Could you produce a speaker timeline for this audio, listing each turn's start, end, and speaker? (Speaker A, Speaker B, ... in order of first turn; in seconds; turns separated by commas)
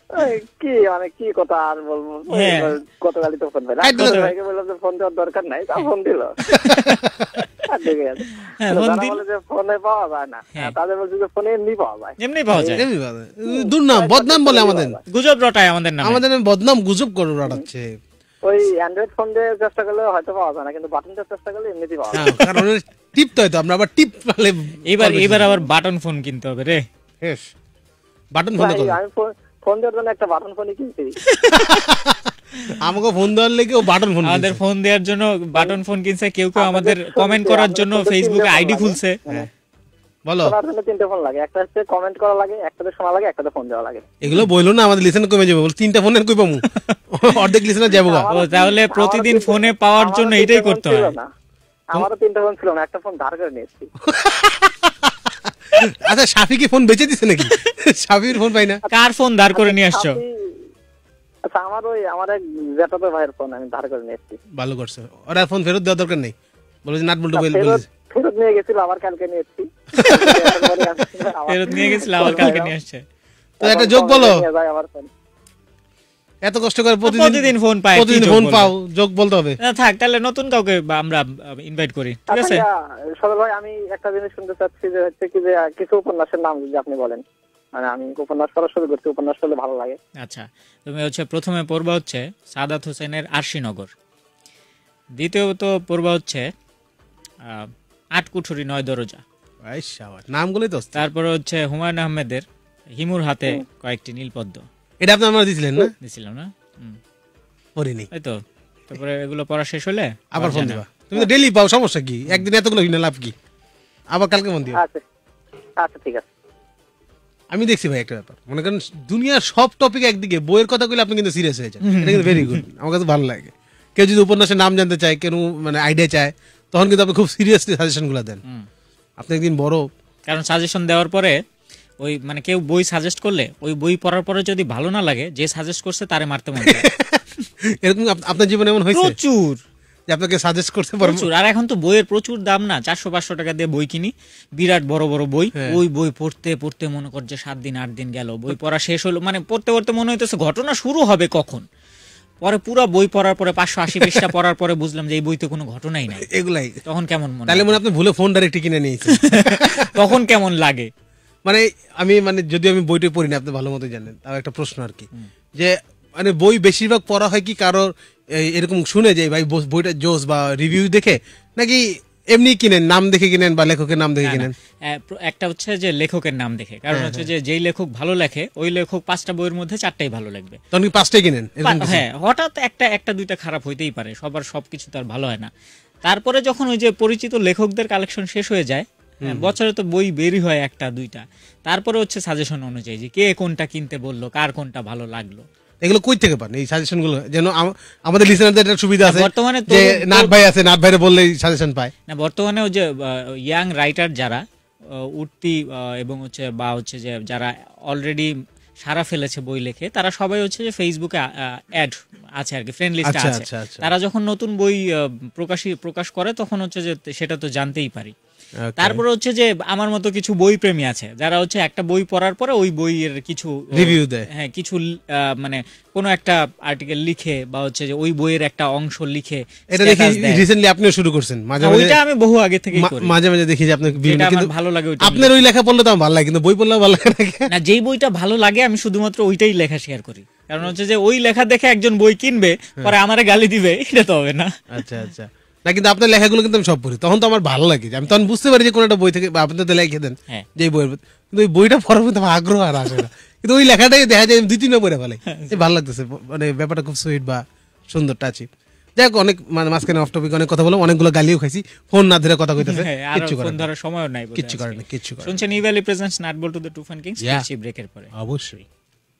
Speaker A: 0.1-6.3, Speaker B: 2.3-2.7, Speaker C: 3.8-4.3, Speaker B: 6.5-7.0, Speaker C: 6.7-7.4, Speaker A: 7.6-12.8, Speaker B: 8.4-9.2, Speaker B: 12.2-12.8, Speaker C: 12.7-15.0, Speaker A: 13.5-15.0, Speaker B: 15.1-16.2, Speaker C: 16.0-17.9, Speaker A: 18.4-22.2, Speaker C: 22.1-25.6, Speaker B: 24.9-26.8, Speaker C: 27.2-27.5, Speaker C: 28.3-29.0, Speaker A: 28.6-31.1, Speaker B: 31.3-31.7, Speaker C: 31.5-34.6, Speaker B: 34.2-39.2, Speaker A: 36.5-39.5, Speaker C: 40.2-40.5, Speaker A: 40.4-44.1, Speaker C: 44.2-48.2, Speaker B: 46.7-47.0, Speaker A: 48.0-51.3, Speaker B: 48.3-51.1, Speaker A: 51.9-53.9, Speaker C: 54.0-58.8, Speaker B: 58.9-60.2, Speaker A: 59.5-60.3, Speaker A: 61.5-64.4, Speaker C: 64.5-67.8, Speaker A: 67.3-72.7, Speaker C: 70.0-70.7, Speaker B: 71.5-73.0, Speaker C: 73.6-74.5, Speaker A: 73.6-75.1, Speaker C: 76.4-79.6, Speaker B: 77.0-78.7, Speaker B: 79.6-82.6, Speaker A: 82.3-87.2, Speaker A: 87.8-90.0, Speaker B: 90.2-93.9, Speaker B: 95.2-96.5, Speaker B: 97.4-99.2, Speaker C: 99.6-101.1, Speaker B: 100.9-104.7, Speaker C: 105.0-105.9, Speaker B: 106.0-107.0, Speaker C: 107.8-108.1, Speaker B: 108.1-108.4, Speaker B: 108.9-110.8, Speaker C: 110.3-113.3, Speaker C: 114.1-114.8, Speaker A: 114.7-115.0, Speaker A: 115.8-116.2, Speaker C: 117.5-128.4, Speaker B: 121.8-122.6, Speaker C: 129.2-129.9, Speaker B: 130.3-131.4, Speaker B: 132.0-136.8, Speaker C: 136.6-139.2, Speaker B: 138.9-139.6, Speaker C: 140.1-141.3, Speaker B: 141.0-151.7, Speaker C: 145.5-145.8, Speaker B: 152.4-156.3, Speaker C: 153.9-154.3, Speaker C: 156.2-156.8, Speaker B: 156.8-157.8, Speaker C: 157.5-160.1, Speaker B: 159.1-160.9, Speaker C: 161.4-174.5, Speaker B: 174.2-180.6, Speaker C: 176.9-177.3, Speaker C: 180.7-182.0, Speaker B: 181.6-185.5, Speaker B: 186.0-195.4, Speaker C: 189.2-189.5, Speaker C: 195.8-201.9, Speaker B: 199.0-200.3, Speaker B: 202.1-218.1, Speaker C: 213.0-213.9, Speaker C: 218.6-219.0, Speaker B: 218.8-230.4, Speaker C: 223.7-224.3, Speaker C: 229.7-232.0, Speaker B: 231.6-233.1, Speaker C: 232.7-237.5, Speaker B: 234.0-235.4, Speaker B: 237.5-244.5, Speaker C: 244.7-263.7, Speaker B: 255.3-255.6, Speaker B: 262.6-268.1, Speaker C: 264.3-265.4, Speaker C: 267.2-267.4, Speaker C: 268.1-268.7